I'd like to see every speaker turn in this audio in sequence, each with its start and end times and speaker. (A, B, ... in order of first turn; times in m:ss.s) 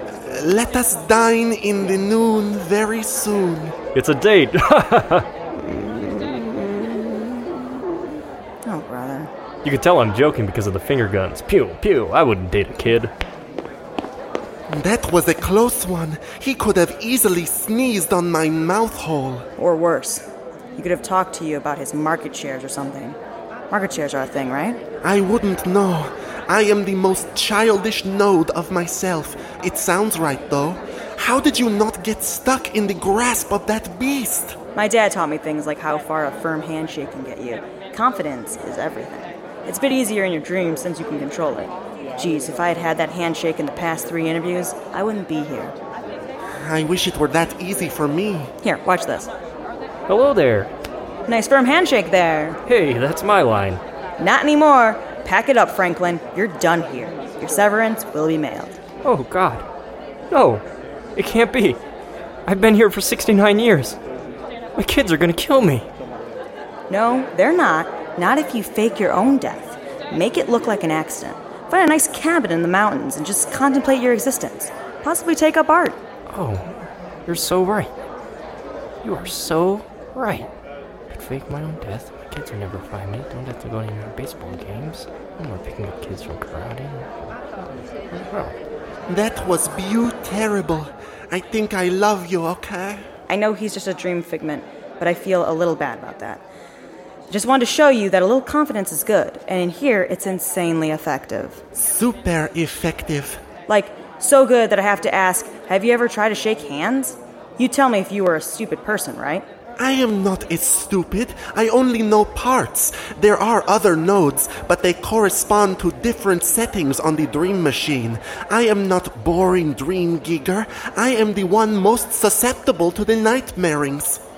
0:00.3-0:03.8 A
0:03.9-0:05.3 B
0:05.6-0:07.4 A
0:08.6-0:09.3 C
0:09.6-0:13.1 B
0:14.7-0:19.5 A
0:19.6-0:23.2 C
0:23.7-0:24.8 C
0:25.0-0:34.6 A
0:34.7-0:45.8 C
0:46.6-0:48.5 A
0:48.6-0:49.3 C
0:50.1-0:50.7 B
0:51.3-0:52.6 C
0:52.6-0:53.8 B
0:54.2-0:58.8 C
0:59.0-0:59.6 B
1:00.3-1:00.6 B
1:01.2-1:01.8 B
1:02.4-1:04.0 B
1:04.8-1:05.8 B
1:06.9-1:16.0 C
1:16.3-1:17.9 B
1:19.0-1:20.5 B
1:21.1-1:27.1 B
1:28.1-1:28.5 B
1:29.1-1:33.0 A
1:33.3-1:36.4 C
1:37.3-1:41.6 C
1:41.7-1:43.4 A
1:43.7-1:49.5 C
1:49.8-2:04.2 A